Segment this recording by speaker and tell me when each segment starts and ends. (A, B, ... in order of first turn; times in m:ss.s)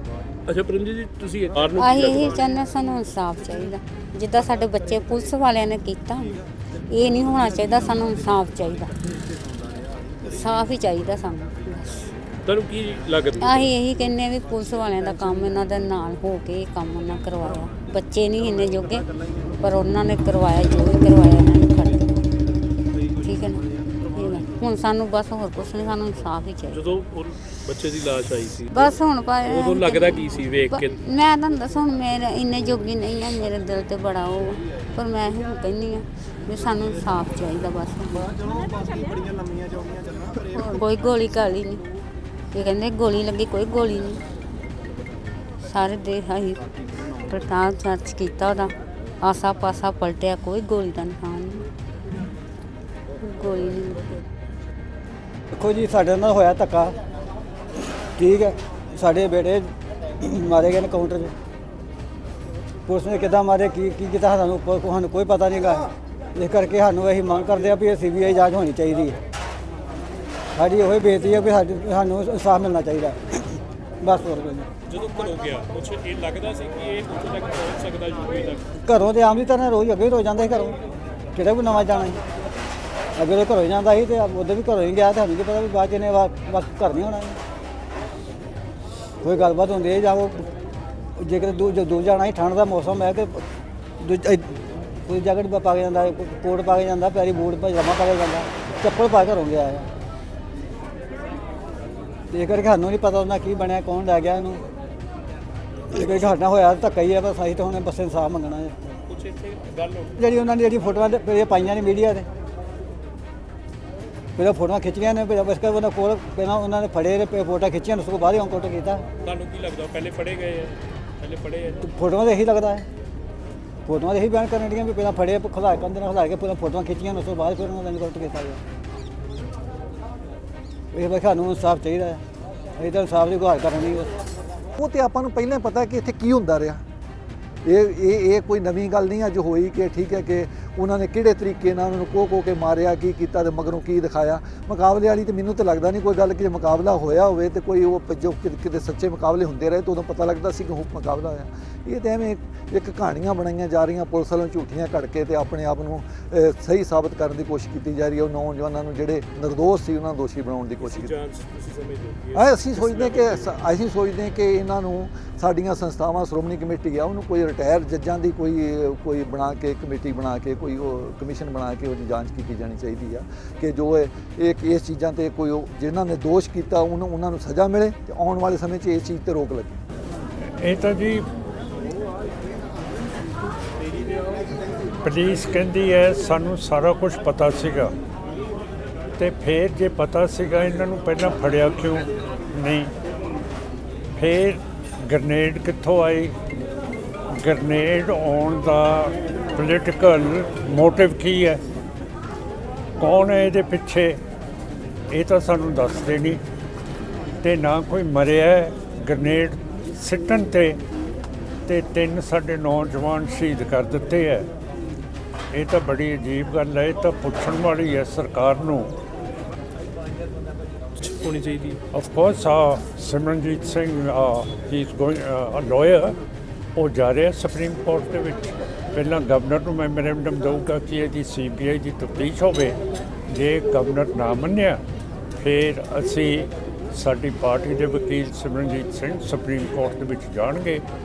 0:00.4-0:02.5 A
0:01.8-0:09.0 B
0:10.2-0:12.1 B
0:12.4-0:13.7 A
0:13.4-0:19.1 B
0:19.6-0:22.2 B
0:23.2-0:26.8 B
0:26.2-0:31.0 A
0:28.7-0:38.4 B
0:40.3-0:41.8 B
0:42.5-0:44.2 B
0:45.6-0:46.7 B
0:47.2-0:51.7 B
0:53.2-0:54.2 B
0:55.5-0:57.0 C
0:58.1-1:01.3 C
1:02.9-1:09.2 C
1:10.5-1:14.7 C
1:14.8-1:18.6 A
1:18.8-1:20.8 C
1:21.3-1:22.2 C
1:23.1-1:27.4 C
1:29.2-1:30.5 C
1:31.2-1:33.5 C
1:34.0-1:39.9 C
1:42.3-1:44.6 C
1:45.9-1:48.9 C
1:49.1-1:50.3 A
1:50.2-1:52.3 C
1:54.4-1:59.0 C
1:59.2-2:01.9 A
2:01.9-2:02.8 C
2:03.8-2:08.6 C
2:10.9-2:12.2 C
2:12.8-2:14.2 C
2:14.8-2:16.8 D
2:17.6-2:41.1 D
2:40.8-2:43.6 A
2:42.3-2:59.8 D
3:00.6-3:01.2 E
3:05.0-3:07.9 E
3:09.2-3:12.9 E
3:14.2-3:16.3 E
3:17.4-3:21.6 E
3:23.0-3:24.2 E
3:25.1-3:26.4 E
3:27.4-3:30.8 E
3:31.7-3:34.5 E
3:35.5-3:38.9 E
3:41.0-3:41.8 A
3:41.9-3:46.2 E
3:46.7-3:54.8 E
3:55.4-4:00.8 E